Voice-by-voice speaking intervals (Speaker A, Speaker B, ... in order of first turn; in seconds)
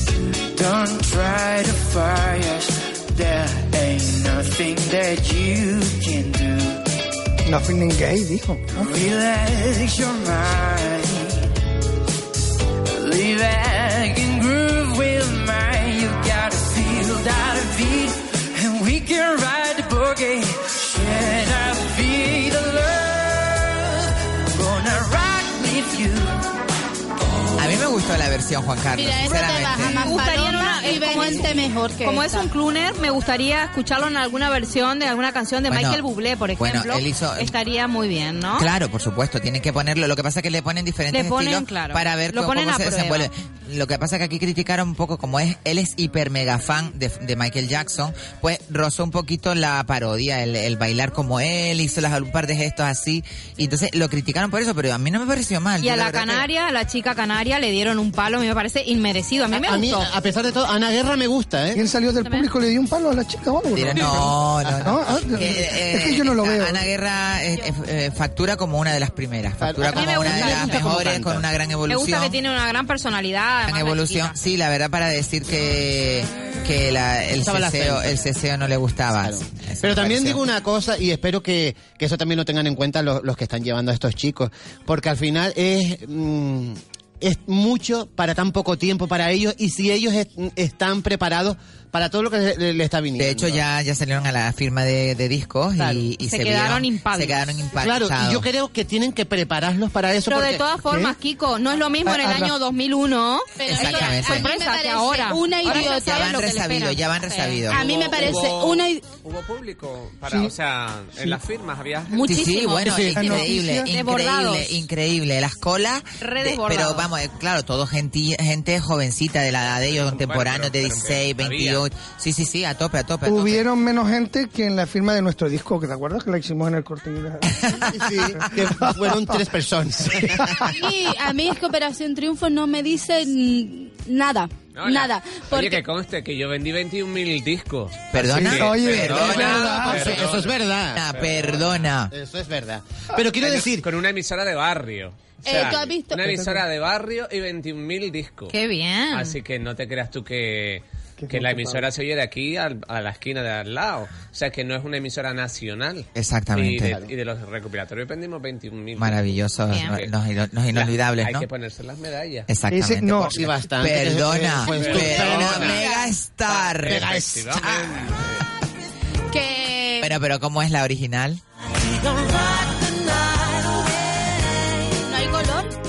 Speaker A: 0.6-6.8, 8.8-11.5, 13.0-23.9, 24.6-26.4
Speaker B: 7.5-9.0, 61.7-66.8, 100.8-101.1, 102.0-102.6, 110.3-110.5, 113.2-113.9, 123.3-129.4, 130.1-130.7, 138.2-140.2, 146.2-146.6, 151.2-151.9, 162.7-163.4
Speaker C: 27.6-30.1, 35.7-36.0, 36.6-37.5, 38.5-56.5, 63.7-72.4, 73.7-80.5, 93.2-98.5, 103.6-104.5, 105.7-107.9, 112.2-123.7, 127.6-127.9, 138.1-139.9, 140.9-142.1, 156.2-156.9, 159.0-161.5, 162.5-167.1, 170.0-171.4
Speaker D: 28.9-32.5, 103.6-106.5, 107.7-109.0, 130.7-135.8, 145.4-146.4, 165.8-166.1, 169.3-170.1, 175.1-175.8
Speaker E: 29.8-38.7, 41.1-43.3, 55.8-60.1, 62.2-62.5, 69.9-70.9, 71.9-74.3, 96.2-97.4, 100.3-107.7, 112.1-114.9, 116.2-117.1, 148.5-149.3
Speaker F: 59.5-61.8, 69.6-71.5, 77.4-78.3, 79.2-93.6, 95.8-96.1, 97.7-100.7, 112.8-113.3, 127.9-130.6, 139.8-141.1, 142.1-143.9, 163.3-165.8, 166.9-167.9
Speaker G: 107.7-112.3, 119.8-121.8, 134.7-140.6, 141.1-141.9, 143.4-148.5, 149.1-160.1, 160.7-162.5, 164.7-165.9, 166.5-168.4